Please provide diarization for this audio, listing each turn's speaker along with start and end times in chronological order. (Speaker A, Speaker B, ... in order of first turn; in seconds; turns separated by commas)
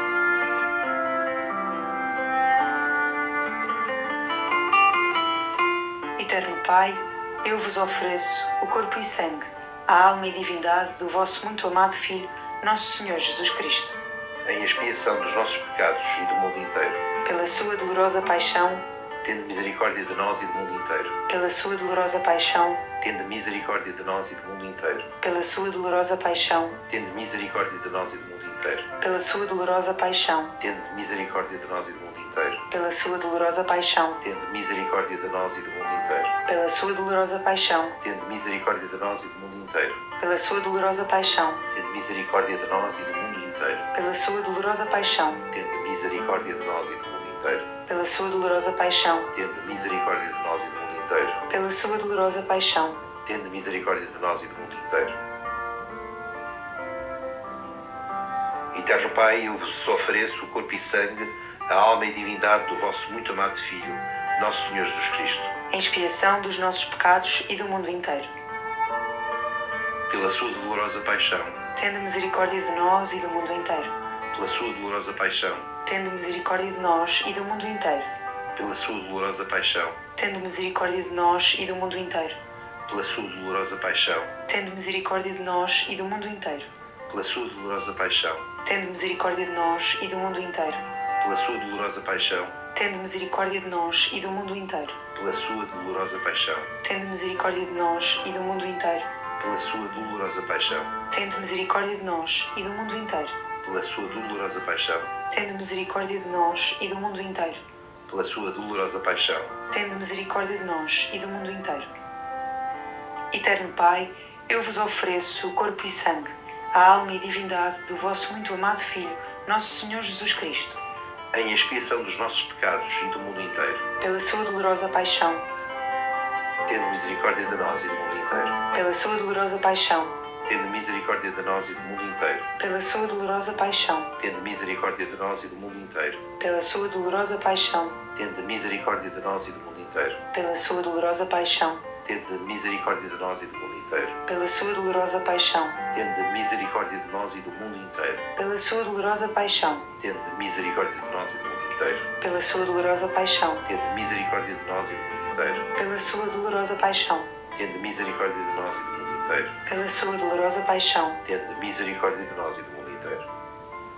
Speaker A: 6.2-13.9, Speaker B: 14.4-17.0, Speaker A: 17.2-18.8, Speaker B: 19.2-21.1, Speaker A: 21.3-22.8, Speaker B: 23.0-25.1, Speaker A: 25.2-26.8, Speaker B: 26.9-28.9, Speaker A: 29.0-30.5, Speaker B: 30.6-32.6, Speaker A: 32.7-34.2, Speaker B: 34.2-36.3, Speaker A: 36.5-37.9, Speaker B: 38.0-40.0, Speaker A: 40.2-41.6, Speaker B: 41.7-43.9, Speaker A: 43.9-45.4, Speaker B: 45.5-47.6, Speaker A: 47.9-49.3, Speaker B: 49.3-51.4, Speaker A: 51.5-53.0, Speaker B: 53.2-55.1, Speaker B: 58.7-65.5, Speaker A: 65.7-68.3, Speaker B: 70.1-71.6, Speaker A: 71.8-73.9, Speaker B: 74.3-75.7, Speaker A: 75.9-78.1, Speaker B: 78.5-80.0, Speaker A: 80.2-82.4, Speaker B: 82.9-84.3, Speaker A: 84.5-86.7, Speaker B: 87.1-88.5, Speaker A: 88.7-90.8, Speaker B: 91.2-92.5, Speaker A: 92.8-94.9, Speaker B: 95.1-96.7, Speaker A: 96.8-99.0, Speaker B: 99.4-100.9, Speaker A: 101.1-103.3, Speaker B: 103.6-105.1, Speaker A: 105.3-107.6, Speaker B: 108.1-109.5, Speaker A: 109.7-111.9, Speaker A: 113.3-120.8, Speaker B: 121.3-123.8, Speaker A: 124.0-125.4, Speaker B: 126.7-128.6, Speaker A: 128.7-130.1, Speaker B: 130.5-132.4, Speaker A: 132.6-134.1, Speaker B: 134.2-136.2, Speaker A: 136.4-137.9, Speaker B: 138.2-140.2, Speaker A: 140.3-141.8, Speaker B: 142.1-144.2, Speaker A: 144.3-145.8, Speaker B: 145.9-148.2, Speaker A: 148.4-149.8, Speaker B: 150.0-152.1, Speaker A: 152.2-153.6, Speaker B: 153.7-155.7, Speaker A: 155.8-157.3, Speaker B: 157.6-159.6, Speaker A: 159.7-161.2, Speaker B: 161.2-163.2